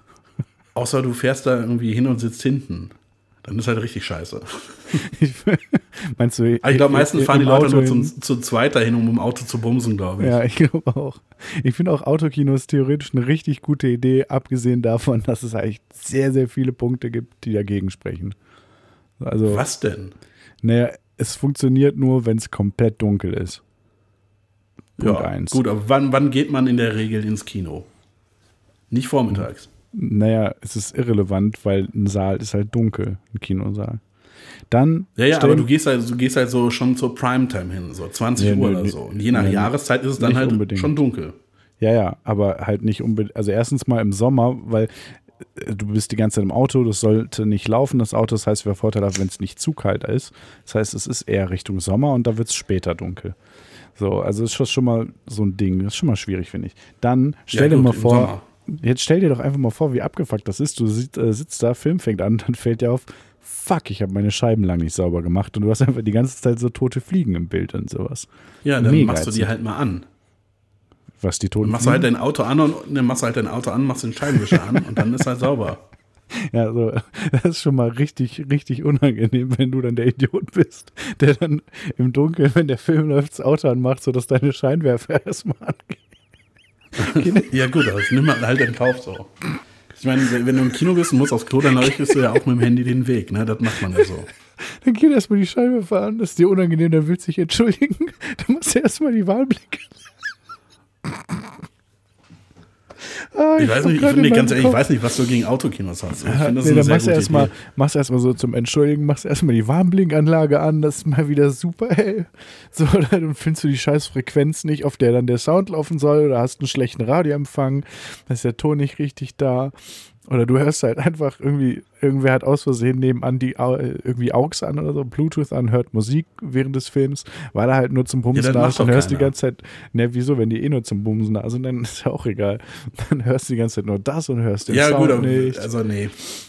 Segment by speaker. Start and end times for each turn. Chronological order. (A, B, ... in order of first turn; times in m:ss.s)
0:00.7-0:05.0 A
0:05.0-0:08.1 B
0:06.6-0:10.4 A
0:10.2-0:18.4 B
0:19.2-0:19.6 B
0:19.5-0:20.1 A
0:20.6-0:23.6 B
0:25.0-0:25.6 B
0:25.0-0:27.9 A
0:28.9-0:29.7 A
0:29.9-0:34.0 B
0:34.7-0:35.7 B
0:35.2-0:41.4 A
0:38.4-0:41.0 B
0:41.8-0:53.4 B
0:54.0-1:09.5 B
0:57.5-0:58.4 A
1:08.6-1:10.0 A
1:11.2-1:12.1 B
1:11.6-1:15.8 A
1:16.3-1:26.1 B
1:27.0-1:27.5 B
1:27.0-1:29.3 A
1:29.9-1:34.3 A
1:34.6-1:40.0 B
1:43.2-1:44.8 B
1:43.6-1:47.5 A
1:46.2-2:15.7 B
2:08.3-2:09.3 A
2:14.7-2:16.2 A